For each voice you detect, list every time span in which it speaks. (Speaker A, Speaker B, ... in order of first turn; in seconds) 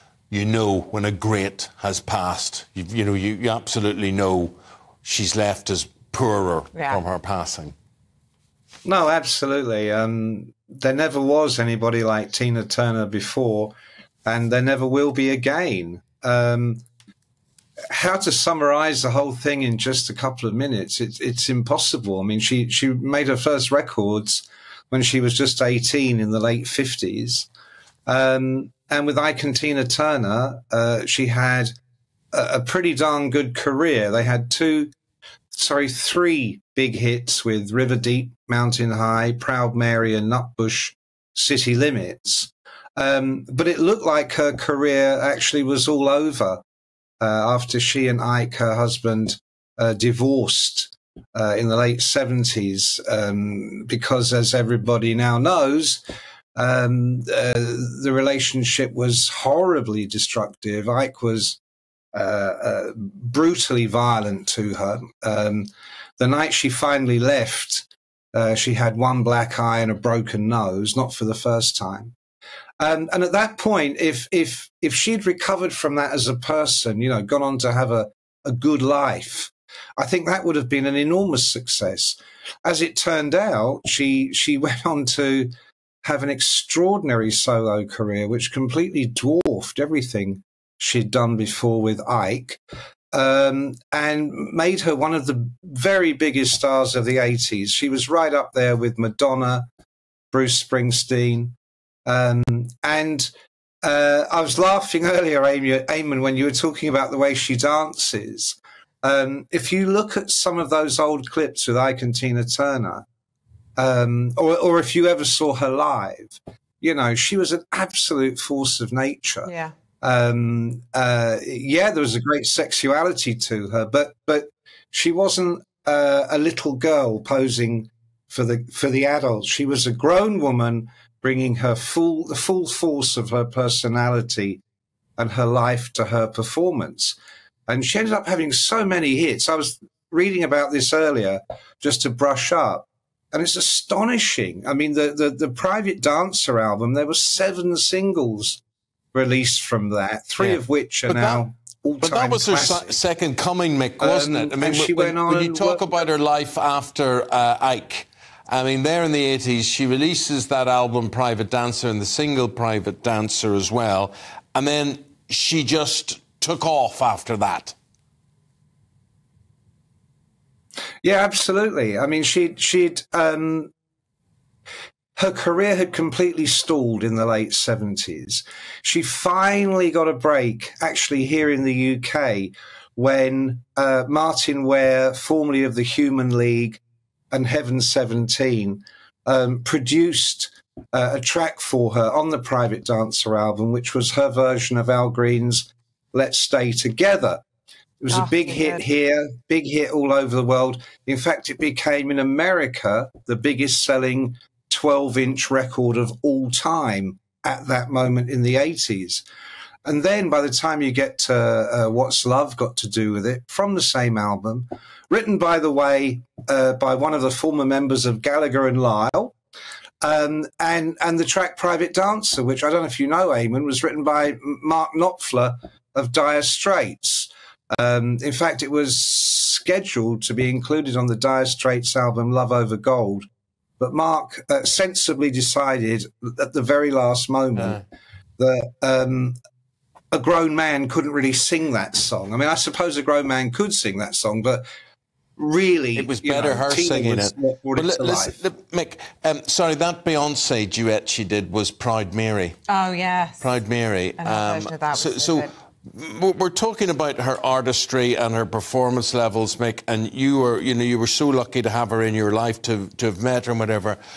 Speaker A: 0.3-7.7, 150.4-151.4, 152.0-167.7, 237.6-237.8, 245.9-252.6, 253.4-264.0
Speaker B: 6.7-7.0, 119.4-119.7, 198.1-198.8, 252.7-253.5, 254.2-255.5
Speaker C: 8.8-13.7, 14.2-16.8, 17.9-27.5, 28.1-31.7, 32.3-34.9, 35.5-46.6, 47.2-56.0, 56.5-61.6, 62.1-72.1, 72.8-85.5, 86.0-92.6, 93.1-99.7, 100.3-103.3, 103.8-113.0, 113.8-119.5, 120.0-134.6, 135.2-137.2, 137.7-148.6, 149.1-152.9, 154.0-156.0, 171.0-173.7, 175.2-197.4, 198.0-209.2, 209.8-219.3, 220.0-233.2, 233.8-237.8, 238.4-239.3, 240.1-244.6, 245.4-248.3